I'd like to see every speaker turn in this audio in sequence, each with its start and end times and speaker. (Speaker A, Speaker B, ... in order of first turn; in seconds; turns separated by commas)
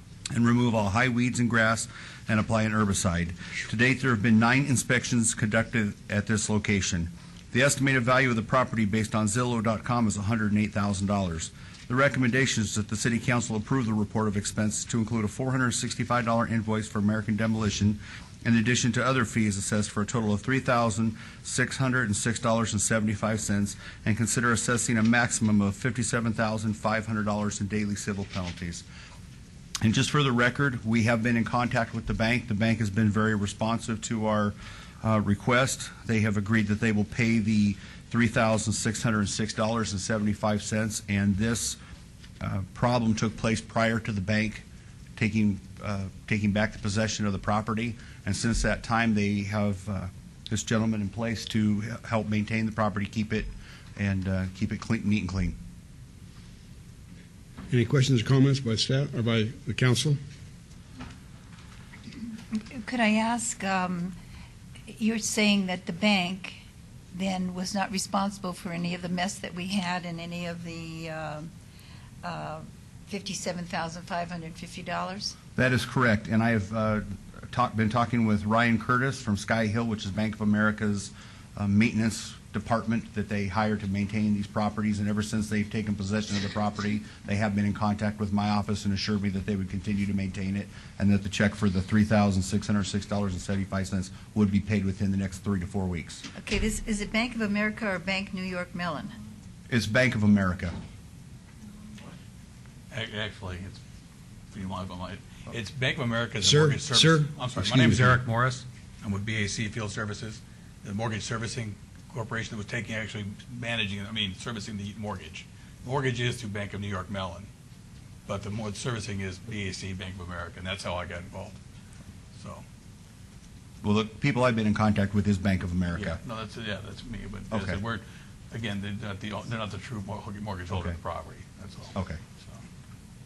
Speaker A: 0.3-28.8, Speaker A: 29.8-41.8, Speaker A: 42.4-44.6, Speaker A: 45.1-55.5, Speaker B: 57.7-60.2, Speaker C: 62.6-64.1, Speaker C: 64.9-66.6, Speaker C: 67.1-71.5, Speaker C: 72.2-75.3, Speaker A: 75.5-96.2, Speaker C: 96.3-99.1, Speaker A: 99.7-100.8, Speaker D: 102.9-103.8, Speaker D: 104.5-117.5, Speaker B: 106.4-108.2, Speaker D: 118.3-121.6, Speaker D: 122.3-122.6, Speaker A: 123.8-126.2, Speaker D: 125.9-132.6, Speaker A: 127.5-127.8, Speaker A: 130.7-130.9, Speaker A: 131.9-132.2